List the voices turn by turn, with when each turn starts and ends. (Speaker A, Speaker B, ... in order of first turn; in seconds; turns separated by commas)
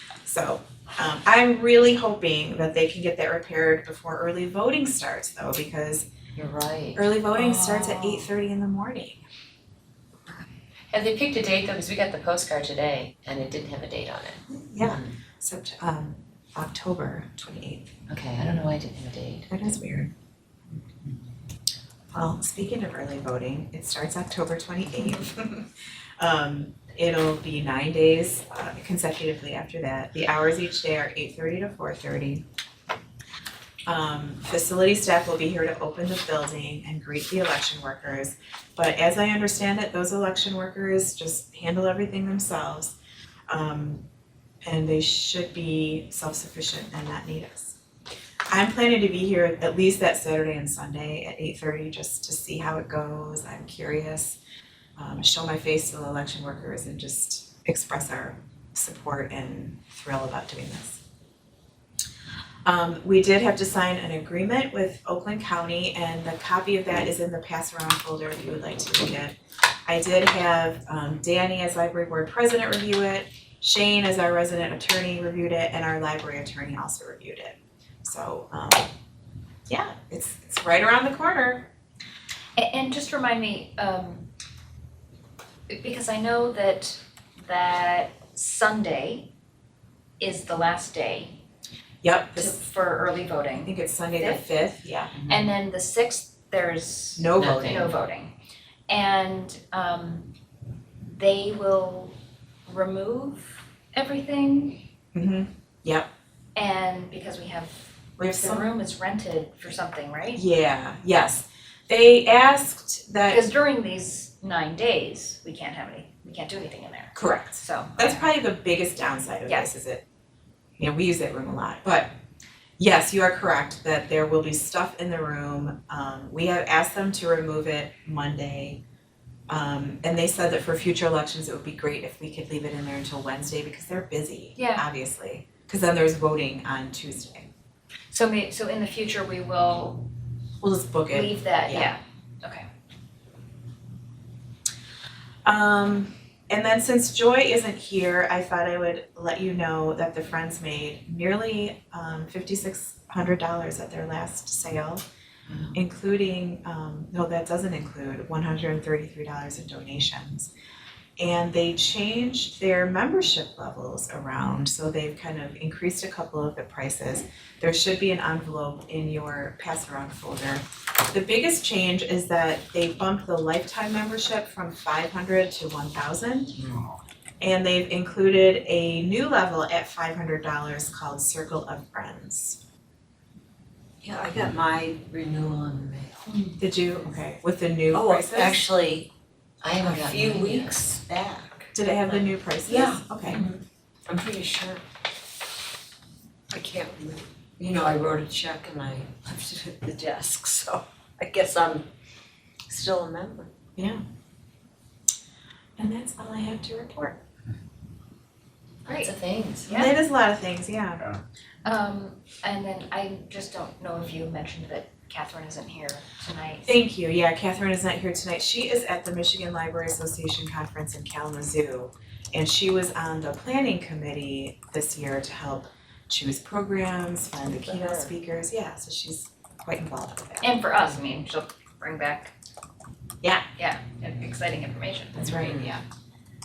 Speaker A: 0.2-6.1, Speaker B: 6.4-7.1, Speaker A: 7.0-9.2, Speaker B: 10.9-15.1, Speaker A: 14.5-17.9, Speaker B: 18.1-19.5, Speaker A: 19.5-20.1, Speaker A: 22.1-32.5, Speaker A: 33.9-43.0, Speaker A: 43.5-44.0, Speaker A: 44.6-47.8, Speaker A: 48.5-54.4, Speaker A: 55.0-61.0, Speaker A: 62.6-78.9, Speaker A: 79.7-81.7, Speaker C: 82.6-84.3, Speaker C: 85.7-89.3, Speaker C: 90.2-91.4, Speaker A: 92.0-92.6, Speaker C: 92.3-94.5, Speaker A: 93.6-95.2, Speaker C: 95.3-98.3, Speaker A: 97.2-97.9, Speaker B: 97.3-97.9, Speaker C: 98.9-100.3, Speaker C: 101.0-104.8, Speaker A: 105.1-106.1, Speaker C: 106.5-110.4, Speaker A: 108.2-108.7, Speaker A: 110.3-113.4, Speaker C: 113.3-118.3, Speaker A: 117.2-120.0, Speaker A: 120.8-122.1, Speaker A: 122.8-128.8, Speaker A: 129.5-137.5, Speaker C: 134.6-134.9, Speaker C: 138.1-140.1, Speaker A: 140.6-141.9, Speaker C: 141.1-142.7, Speaker A: 145.4-155.1, Speaker A: 155.7-160.5, Speaker A: 161.2-176.6, Speaker A: 177.4-182.6, Speaker D: 184.0-186.3, Speaker A: 186.6-188.6, Speaker D: 187.9-189.1, Speaker B: 189.6-190.9, Speaker D: 189.7-191.7, Speaker A: 191.7-193.4, Speaker D: 192.7-194.8, Speaker D: 196.5-201.8, Speaker D: 202.7-203.5, Speaker A: 203.8-204.0, Speaker A: 205.8-207.2, Speaker B: 208.9-209.7, Speaker C: 208.9-209.1, Speaker C: 209.7-210.0, Speaker A: 209.7-211.1, Speaker C: 211.7-216.7, Speaker A: 216.7-230.5, Speaker D: 227.5-228.1, Speaker C: 230.4-232.3, Speaker C: 233.6-235.3, Speaker A: 235.2-235.8